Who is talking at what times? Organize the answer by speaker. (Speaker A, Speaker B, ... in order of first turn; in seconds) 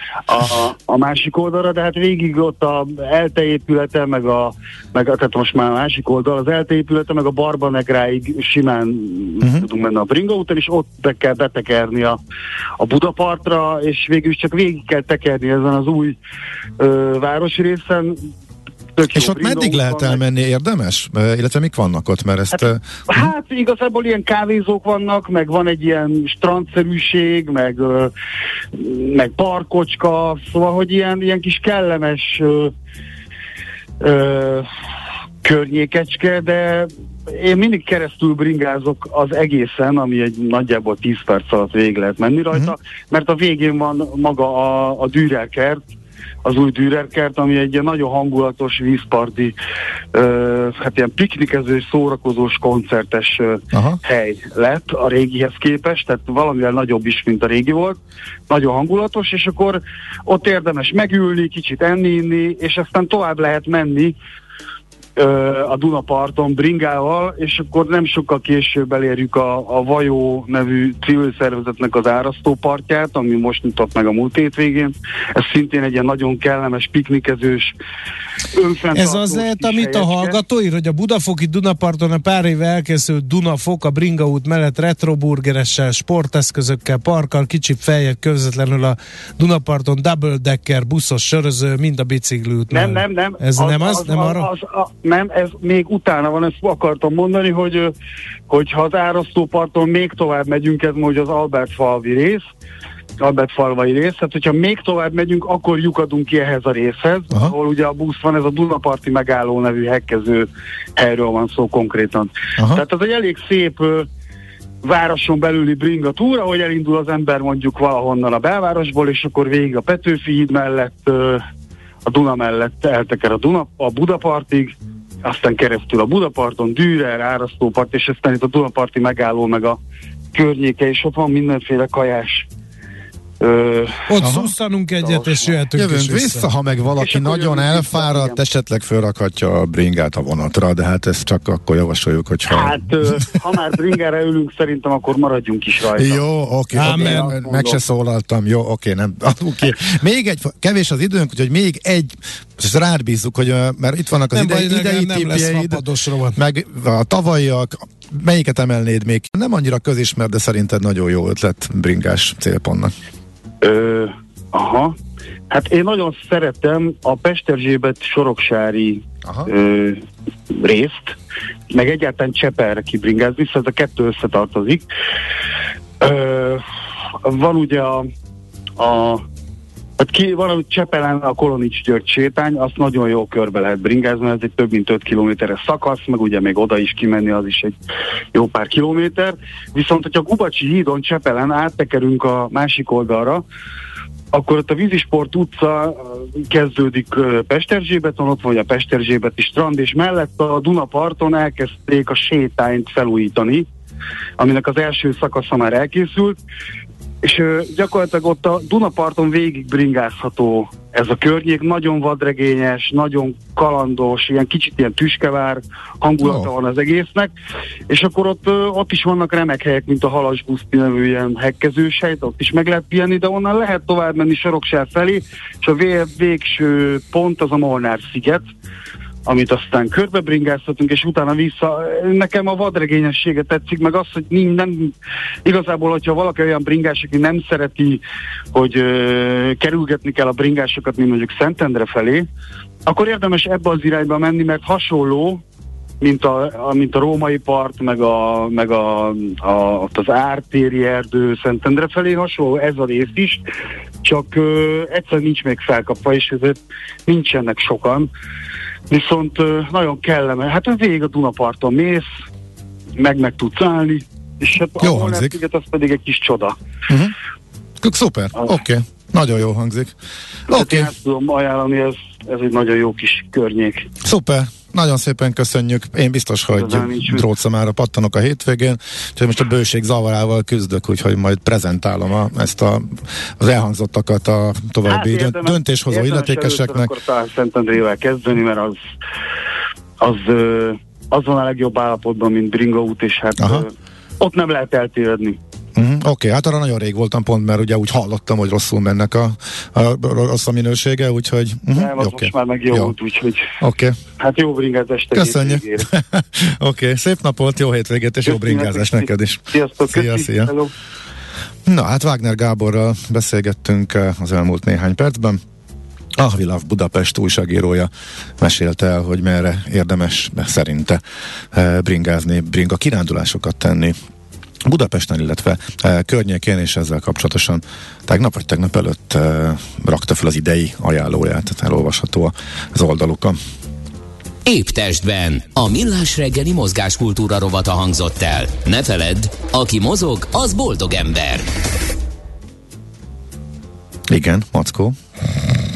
Speaker A: 0.3-12.2, 12.8-16.2, 16.8-18.2, 19.0-20.2, 23.1-28.1, 28.7-32.7, 34.0-34.7, 35.4-45.8, 46.4-49.5, 50.1-58.0, 58.5-64.1, 65.2-77.7, 78.5-80.3, 92.7-97.9, 98.5-102.4, 103.2-114.1, 114.8-121.4, 122.0-124.7, 125.2-129.8, 130.3-132.5, 133.4-134.2, 135.0-135.6, 137.0-138.4, 142.5-146.2, 146.7-147.8, 163.6-164.9, 165.5-171.1, 171.7-174.8, 176.0-176.6, 177.2-178.1, 178.8-179.2, 180.0-187.7, 188.3-193.4, 194.3-203.7, 204.4-206.4, 207.2-217.3, 217.9-228.4, 229.2-234.9, 235.4-242.2, 242.8-245.4, 246.0-253.4, 254.0-258.1, 258.9-262.1, 263.0-266.6, 270.5-273.9, 276.5-277.2, 284.9-288.8, 290.0-295.4, 301.7-303.5, 304.2-305.9, 308.2-310.7
Speaker B: 9.4-9.7, 19.1-23.3, 53.7-54.0, 112.6-112.8, 134.2-134.5, 135.8-143.5, 145.9-155.8, 156.3-162.9, 169.2-169.5, 216.2-216.5, 264.8-265.4, 266.9-267.1, 267.8-269.9, 270.5-270.9, 274.0-286.9, 293.4-293.7, 295.8-302.9, 303.6-303.9, 305.1-310.5, 311.6-315.4, 316.2-321.0, 321.5-324.0, 324.6-333.4, 344.1-344.9
Speaker C: 78.9-94.5, 134.1-136.5, 146.7-147.3, 154.3-156.4
Speaker D: 334.4-341.5